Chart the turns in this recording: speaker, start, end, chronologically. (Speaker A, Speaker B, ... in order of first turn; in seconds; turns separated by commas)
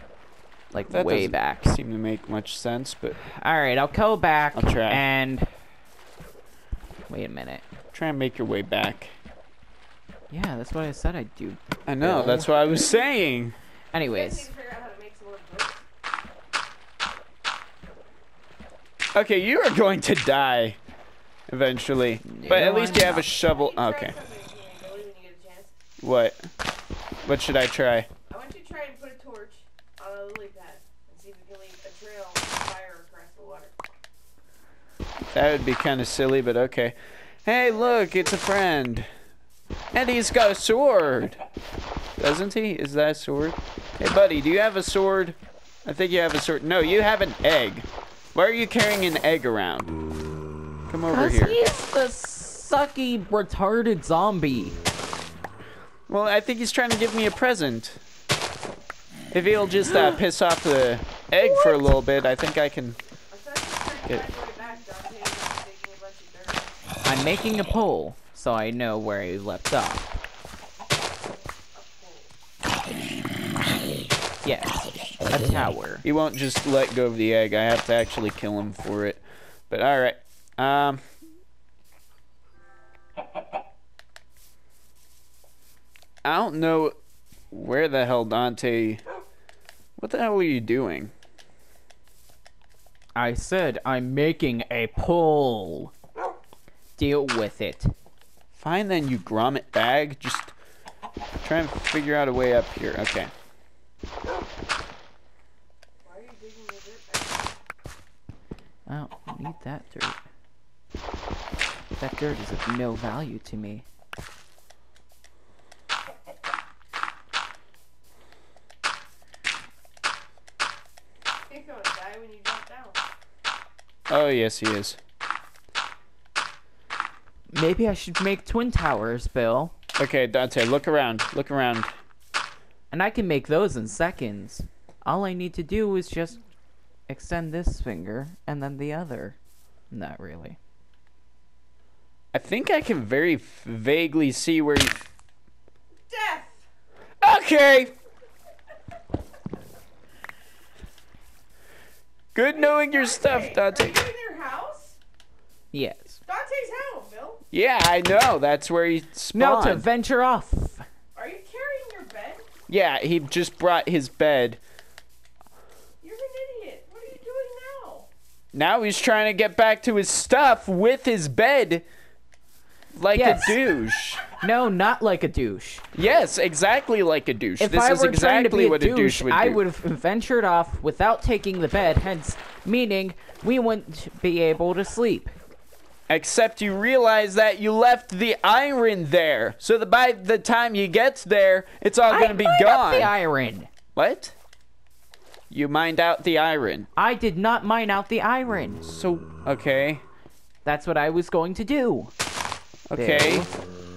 Speaker A: 0.7-1.8, Speaker B: 0.9-3.2, Speaker A: 3.2-5.5, Speaker B: 4.5-5.0, Speaker A: 7.1-7.6, Speaker B: 7.9-9.2, Speaker A: 10.3-12.7, Speaker B: 11.9-13.6, Speaker A: 13.9-14.5, Speaker C: 14.1-15.8, Speaker B: 19.1-20.8, Speaker B: 21.5-24.2, Speaker A: 22.3-23.3, Speaker C: 23.1-25.8, Speaker B: 26.0-26.4, Speaker B: 27.2-28.1, Speaker C: 28.3-33.7, Speaker B: 35.3-39.1, Speaker C: 37.6-38.5, Speaker B: 39.9-41.4, Speaker B: 42.2-50.0, Speaker B: 50.9-51.6, Speaker A: 51.1-54.8, Speaker B: 56.1-58.0, Speaker B: 59.3-63.0, Speaker A: 61.4-61.9, Speaker C: 63.3-66.7, Speaker A: 67.1-70.2, Speaker C: 71.6-72.3, Speaker A: 74.4-76.0, Speaker B: 76.0-81.0, Speaker B: 86.2-87.0, Speaker B: 87.5-89.0, Speaker B: 90.0-91.1, Speaker A: 93.2-95.9, Speaker A: 97.0-97.9, Speaker B: 98.5-100.5, Speaker B: 101.4-103.3, Speaker C: 106.0-107.6, Speaker A: 108.9-110.2, Speaker A: 112.0-113.8, Speaker C: 121.5-123.0, Speaker B: 124.1-125.0, Speaker A: 127.5-129.7, Speaker B: 130.0-131.9, Speaker A: 132.9-136.4, Speaker A: 137.1-139.4, Speaker A: 139.9-140.6, Speaker B: 142.3-145.0, Speaker C: 146.1-146.7, Speaker B: 147.2-147.9, Speaker B: 152.3-154.0, Speaker C: 152.5-155.0, Speaker A: 155.7-156.2, Speaker C: 156.3-157.4, Speaker B: 157.5-159.9, Speaker A: 159.3-160.8, Speaker C: 161.2-162.4, Speaker B: 162.7-164.6, Speaker C: 166.0-168.1, Speaker B: 168.5-171.9, Speaker B: 172.9-174.4, Speaker A: 173.1-173.6, Speaker A: 174.3-175.8, Speaker B: 175.9-179.6, Speaker A: 177.6-185.3, Speaker B: 186.1-193.1, Speaker A: 192.1-193.7, Speaker B: 193.9-194.3, Speaker B: 195.5-196.9, Speaker A: 197.0-198.8, Speaker B: 198.8-200.0, Speaker A: 200.7-202.1, Speaker B: 202.9-203.5, Speaker A: 202.9-203.5